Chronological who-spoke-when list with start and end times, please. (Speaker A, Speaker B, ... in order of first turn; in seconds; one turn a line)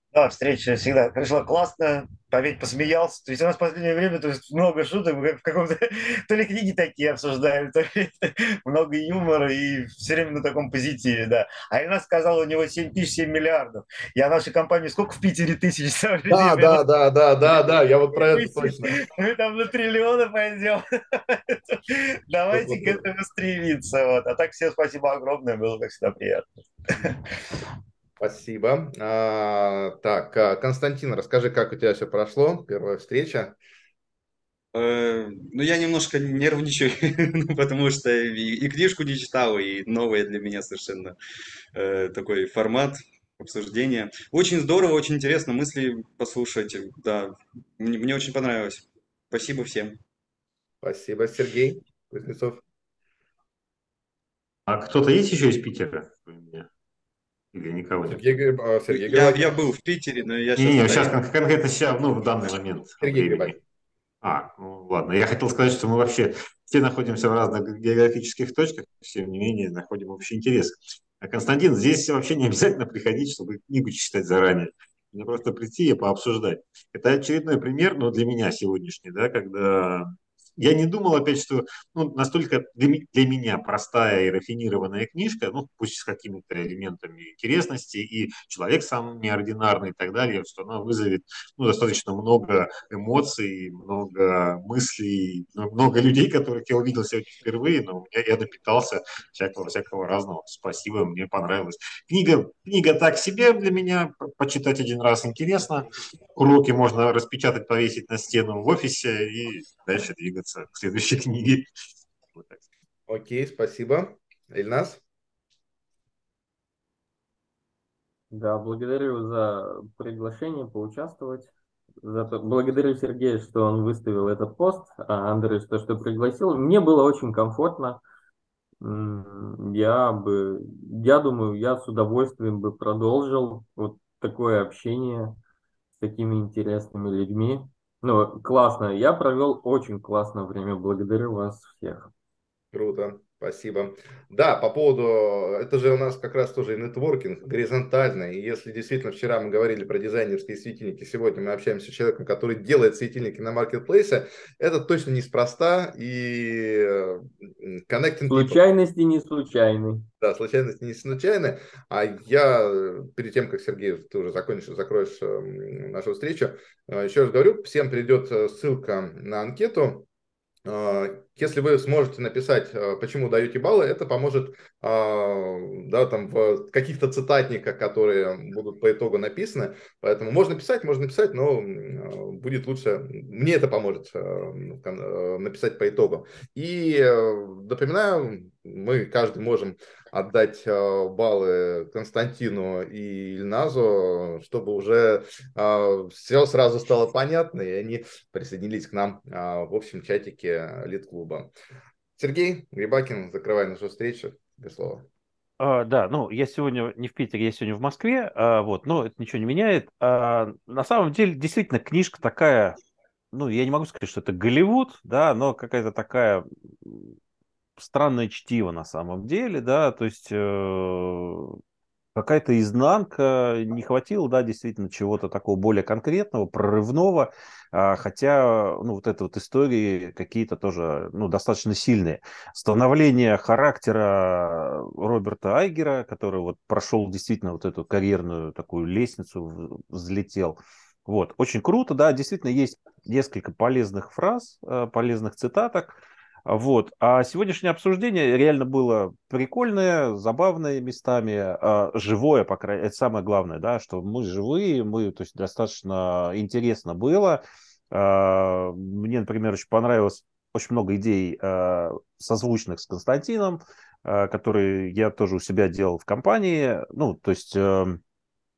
Speaker A: 0.1-16.8
Speaker B: 16.3-18.9
Speaker A: 17.4-27.2
Speaker B: 22.5-23.0
Speaker B: 28.2-33.5
Speaker C: 34.7-41.1
Speaker C: 41.7-50.0
Speaker B: 50.8-52.6
Speaker D: 54.7-56.7
Speaker D: 57.5-58.4
Speaker B: 58.1-59.5
Speaker C: 58.9-61.2
Speaker D: 60.6-63.6
Speaker B: 63.0-63.5
Speaker D: 64.2-111.7
Speaker D: 112.3-112.6
Speaker B: 113.1-115.0
Speaker E: 118.3-121.5
Speaker E: 122.0-128.0
Speaker E: 128.8-135.3
Speaker E: 136.0-142.1
Speaker B: 142.7-158.6
Speaker E: 158.3-160.1
Speaker B: 160.2-170.1
Speaker B: 170.6-201.5
Speaker B: 202.2-205.1
Speaker F: 205.6-212.8
Speaker F: 213.3-217.1
Speaker F: 217.8-221.6
Speaker F: 222.1-268.0